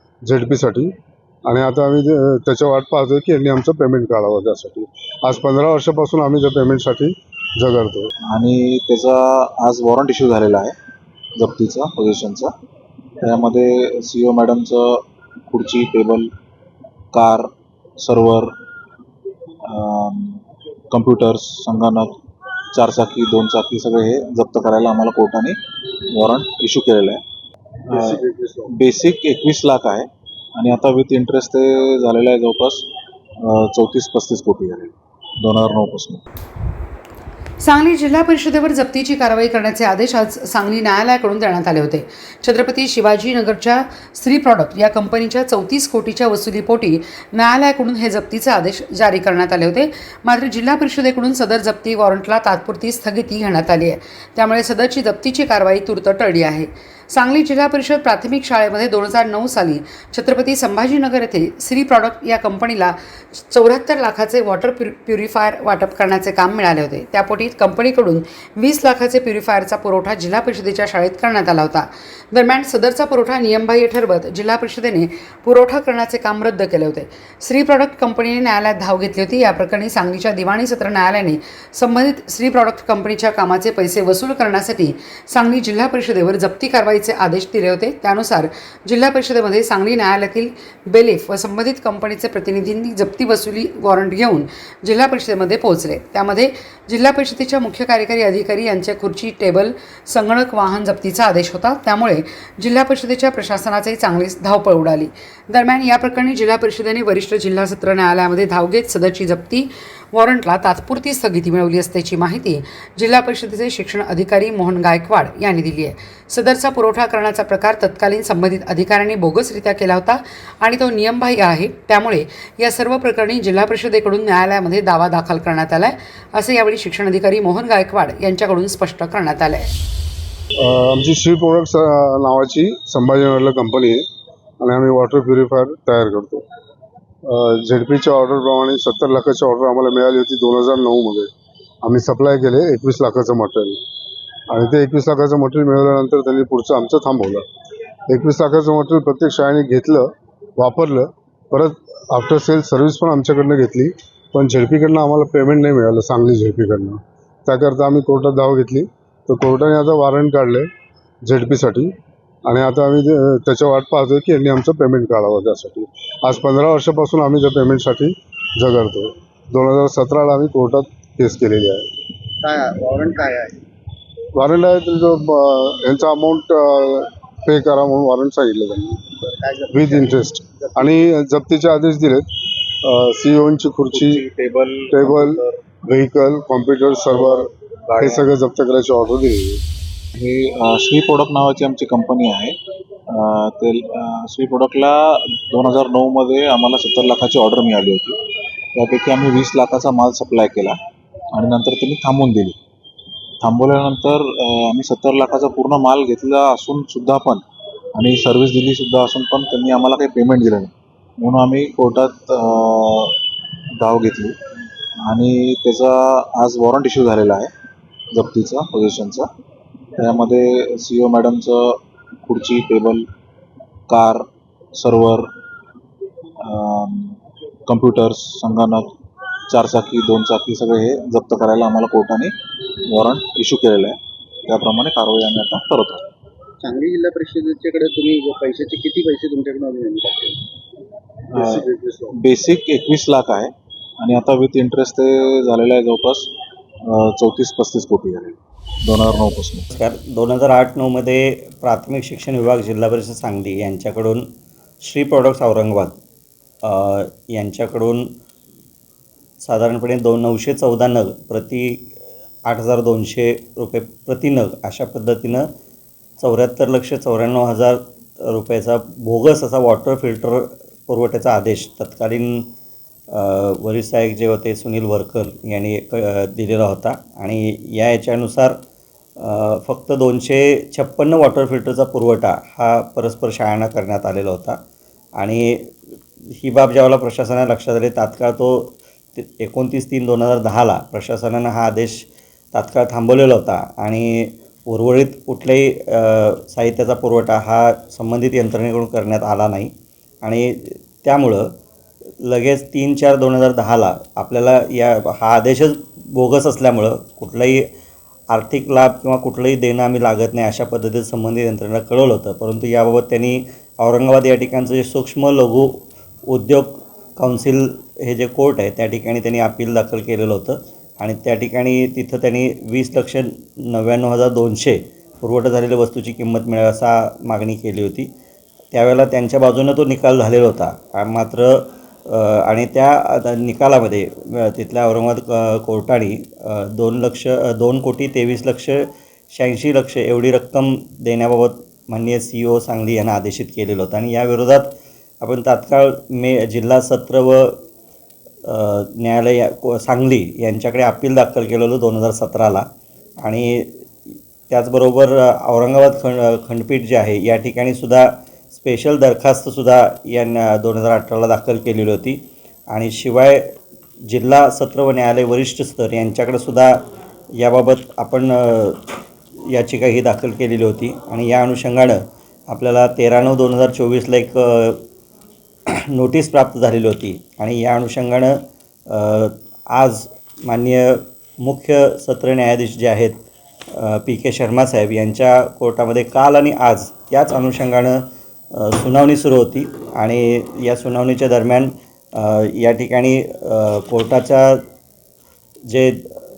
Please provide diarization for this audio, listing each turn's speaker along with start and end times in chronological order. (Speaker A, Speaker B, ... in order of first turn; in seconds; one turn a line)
Speaker A: 0.3-0.9
Speaker A: 1.4-8.1
Speaker B: 8.3-10.7
Speaker B: 11.4-12.5
Speaker B: 13.2-16.3
Speaker B: 17.1-17.5
Speaker B: 18.0-18.5
Speaker B: 19.7-22.2
Speaker B: 22.7-25.6
Speaker B: 26.1-27.2
Speaker B: 27.9-28.2
Speaker A: 27.9-28.7
Speaker B: 28.7-32.9
Speaker B: 33.5-36.2
Speaker C: 37.6-129.7
Speaker A: 130.6-134.0
Speaker A: 134.6-136.4
Speaker A: 137.2-141.3
Speaker A: 141.8-143.8
Speaker A: 144.5-147.4
Speaker A: 148.1-160.7
Speaker A: 161.2-161.9
Speaker A: 162.4-171.8
Speaker D: 172.4-173.6
Speaker A: 174.3-179.0
Speaker D: 179.3-180.1
Speaker A: 179.7-182.2
Speaker A: 182.8-184.2
Speaker B: 183.9-185.6
Speaker A: 184.9-189.6
Speaker B: 187.2-188.2
Speaker B: 190.1-192.6
Speaker B: 193.1-198.2
Speaker B: 198.7-200.8
Speaker B: 201.3-202.6
Speaker B: 203.4-213.2
Speaker B: 213.8-214.4
Speaker B: 215.1-217.5
Speaker B: 218.1-219.3
Speaker B: 220.0-223.1
Speaker B: 223.9-225.3
Speaker B: 226.4-228.9
Speaker B: 229.5-232.3
Speaker B: 232.9-236.0
Speaker D: 236.6-240.4
Speaker D: 241.3-242.1
Speaker B: 241.3-246.3
Speaker B: 246.9-249.7
Speaker E: 249.7-254.2
Speaker E: 254.8-256.0
Speaker E: 256.6-258.1
Speaker E: 259.4-261.9
Speaker E: 262.5-265.5
Speaker E: 266.2-272.5
Speaker E: 273.1-278.6
Speaker E: 279.2-284.6
Speaker E: 285.2-285.7
Speaker E: 286.3-301.5
Speaker E: 302.2-307.6
Speaker E: 308.3-315.7
Speaker E: 316.3-328.1
Speaker E: 328.7-347.6
Speaker E: 348.4-352.7
Speaker E: 353.2-353.8
Speaker E: 354.5-363.6
Speaker E: 364.1-366.8
Speaker E: 367.3-368.8
Speaker E: 369.5-374.8
Speaker E: 375.7-394.6
Speaker E: 395.7-396.2